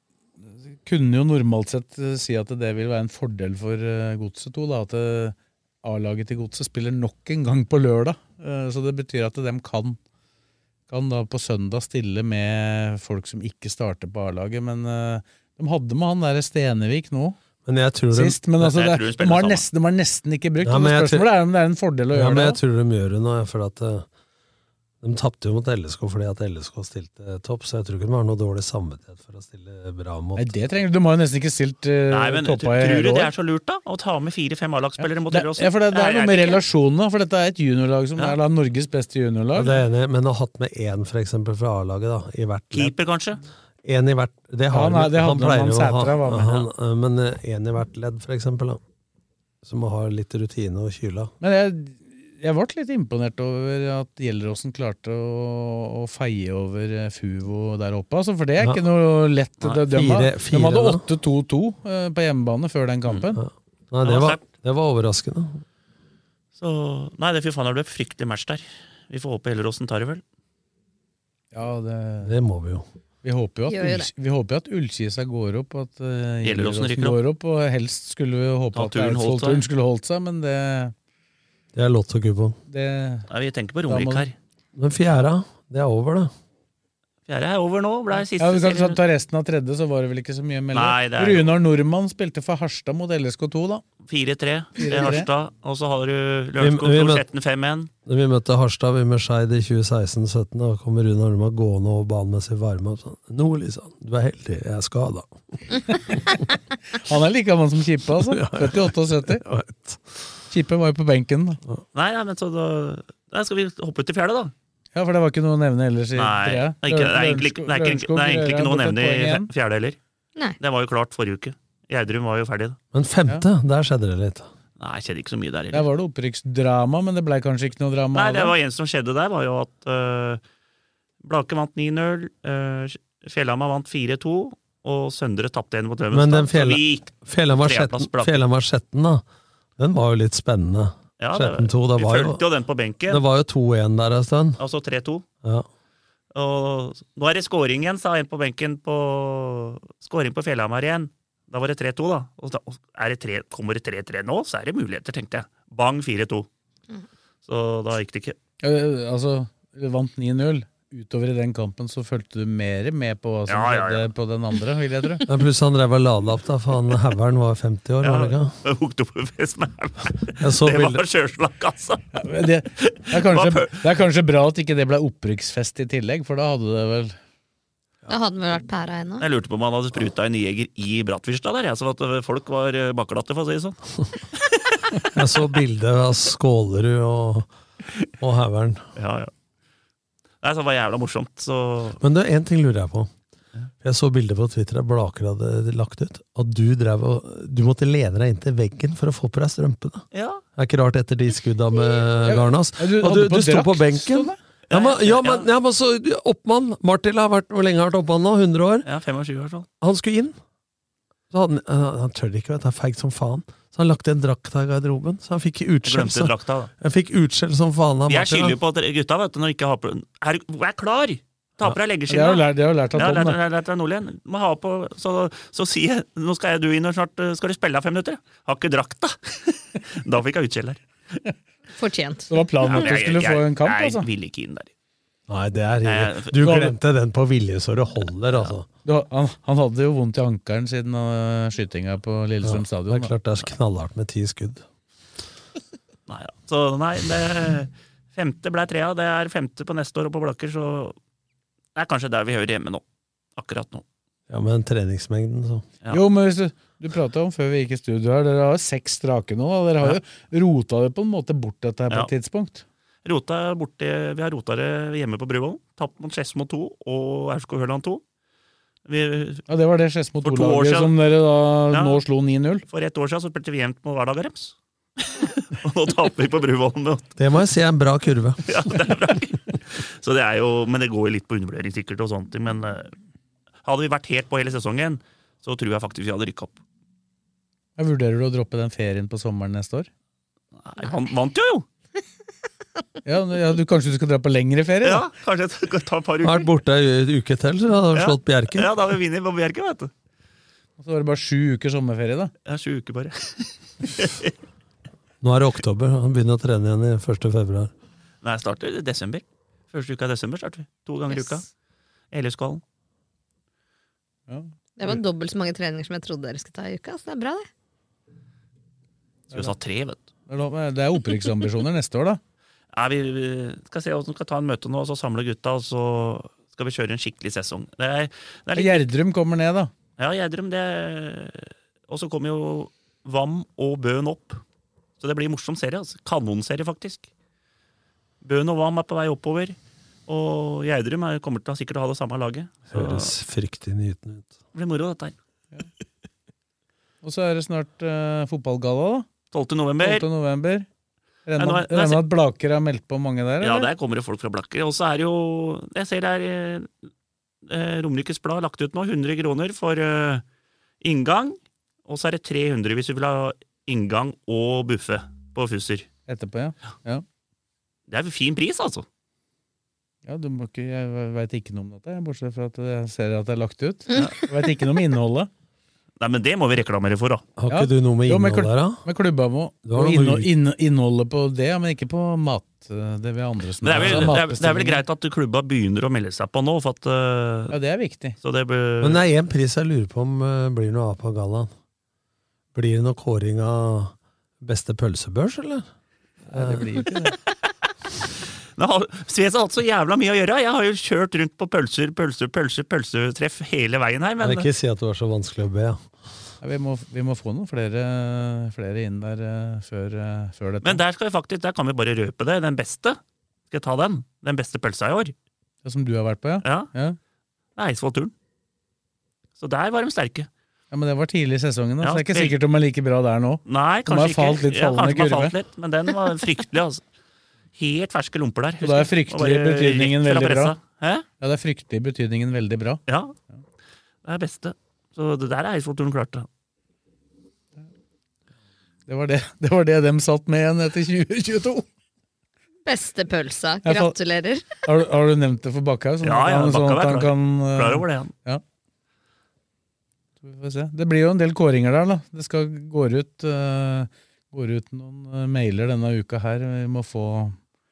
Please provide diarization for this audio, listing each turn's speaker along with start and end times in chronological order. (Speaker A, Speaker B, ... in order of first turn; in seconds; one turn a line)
Speaker A: 0.4-10.0
Speaker A: 10.9-17.4
Speaker B: 17.6-18.4
Speaker A: 18.1-22.6
Speaker C: 18.6-19.6
Speaker B: 20.6-21.3
Speaker B: 22.1-24.1
Speaker B: 25.0-30.8
Speaker A: 30.4-33.3
Speaker C: 32.1-36.6
Speaker A: 35.0-39.8
Speaker B: 39.5-43.0
Speaker C: 42.7-43.4
Speaker B: 43.8-48.8
Speaker A: 44.7-46.7
Speaker B: 49.6-51.3
Speaker A: 51.4-63.4
Speaker B: 59.9-61.0
Speaker B: 63.4-65.6
Speaker C: 64.0-64.4
Speaker C: 66.5-70.2
Speaker A: 71.5-72.3
Speaker B: 72.2-72.8
Speaker A: 73.2-80.9
Speaker D: 73.7-74.1
Speaker C: 76.4-77.2
Speaker C: 78.7-79.6
Speaker B: 81.7-82.6
Speaker A: 82.7-83.3
Speaker C: 83.3-84.3
Speaker A: 83.9-84.3
Speaker B: 84.7-86.3
Speaker C: 87.3-89.0
Speaker A: 88.4-93.8
Speaker C: 90.7-91.5
Speaker C: 94.0-97.9
Speaker A: 94.8-95.3
Speaker B: 96.6-97.2
Speaker B: 98.0-105.3
Speaker A: 105.9-106.2
Speaker A: 106.9-109.4
Speaker B: 108.3-110.1
Speaker A: 110.5-111.6
Speaker C: 111.9-114.5
Speaker A: 114.9-119.5
Speaker C: 116.2-120.0
Speaker C: 120.6-122.8
Speaker B: 122.9-124.5
Speaker C: 124.8-125.8
Speaker A: 125.7-128.5
Speaker C: 128.1-130.4
Speaker C: 131.2-138.4
Speaker B: 136.1-139.2
Speaker B: 139.8-142.4
Speaker C: 141.2-143.2
Speaker B: 143.1-144.6
Speaker C: 144.6-145.2
Speaker C: 146.3-156.5
Speaker C: 157.4-158.4
Speaker A: 158.6-165.3
Speaker C: 163.5-164.1
Speaker B: 165.2-168.5
Speaker C: 168.0-172.2
Speaker B: 170.4-171.0
Speaker A: 172.1-177.2
Speaker C: 172.8-173.7
Speaker D: 178.1-179.3
Speaker C: 179.2-183.8
Speaker C: 184.3-185.2
Speaker B: 185.1-187.5
Speaker B: 188.2-188.9
Speaker C: 188.9-189.3
Speaker C: 190.4-192.0
Speaker B: 192.0-193.1
Speaker B: 193.8-200.0
Speaker C: 200.1-200.4
Speaker B: 200.6-208.9
Speaker A: 202.2-204.4
Speaker C: 204.7-205.5
Speaker C: 208.8-209.7
Speaker B: 209.8-210.4
Speaker B: 211.3-218.6
Speaker C: 215.8-216.7
Speaker C: 218.1-230.8
Speaker A: 222.1-223.4
Speaker D: 231.7-232.4
Speaker A: 232.3-234.0
Speaker C: 232.6-234.7
Speaker B: 235.3-238.7
Speaker C: 235.8-236.7
Speaker A: 236.4-236.7
Speaker A: 238.8-243.1
Speaker B: 242.4-244.6
Speaker C: 246.1-250.9
Speaker C: 251.7-252.8
Speaker C: 253.3-253.8
Speaker B: 254.3-255.7
Speaker A: 255.9-262.6
Speaker C: 263.0-268.0
Speaker C: 268.9-269.4
Speaker A: 269.5-272.6
Speaker C: 270.2-270.9
Speaker C: 271.7-272.0
Speaker C: 272.7-277.1
Speaker B: 277.1-278.7
Speaker C: 278.5-282.9
Speaker C: 283.6-286.6
Speaker A: 287.8-289.9
Speaker C: 290.6-291.6
Speaker A: 293.0-295.0
Speaker C: 294.8-296.5
Speaker B: 296.2-298.7
Speaker C: 297.9-299.9
Speaker A: 300.8-302.3
Speaker C: 302.4-304.3
Speaker B: 305.2-307.7
Speaker C: 308.2-311.4
Speaker D: 311.1-311.4
Speaker C: 312.1-312.6
Speaker A: 314.3-315.0
Speaker D: 314.8-317.5
Speaker C: 319.3-320.0
Speaker A: 320.3-322.2
Speaker C: 322.7-328.9
Speaker A: 328.5-329.7
Speaker C: 330.0-334.4
Speaker C: 335.0-337.1
Speaker C: 338.2-339.6
Speaker C: 340.1-343.1
Speaker B: 342.7-344.3
Speaker C: 344.5-345.1
Speaker A: 347.0-349.1
Speaker C: 349.3-350.1
Speaker A: 349.8-350.7
Speaker A: 351.3-353.7
Speaker C: 351.4-352.0
Speaker C: 353.4-356.7
Speaker C: 357.4-360.2
Speaker C: 360.8-365.9
Speaker A: 366.1-367.0
Speaker C: 367.9-368.9
Speaker A: 370.1-375.3
Speaker C: 376.0-377.3
Speaker B: 377.4-378.8
Speaker A: 377.5-384.8
Speaker B: 379.6-380.3
Speaker C: 383.6-387.5
Speaker B: 383.7-384.1
Speaker A: 387.5-388.2
Speaker C: 388.2-389.0
Speaker B: 388.8-391.5
Speaker B: 392.5-395.6
Speaker A: 396.3-397.1
Speaker B: 396.3-396.8
Speaker C: 398.6-404.5
Speaker B: 404.2-405.8
Speaker A: 406.4-410.8
Speaker C: 410.6-413.0
Speaker C: 413.5-415.1
Speaker A: 415.6-417.0
Speaker C: 416.4-416.7
Speaker C: 417.6-418.1
Speaker C: 419.4-420.3
Speaker A: 420.7-425.3
Speaker C: 421.8-422.4
Speaker C: 423.4-426.8
Speaker C: 427.5-431.0
Speaker A: 428.6-430.6
Speaker A: 431.2-432.8
Speaker C: 432.9-433.1
Speaker C: 434.0-436.3
Speaker A: 438.9-441.6
Speaker D: 442.6-444.5
Speaker A: 443.6-443.9
Speaker A: 444.6-448.4
Speaker C: 446.0-448.1
Speaker A: 450.2-457.4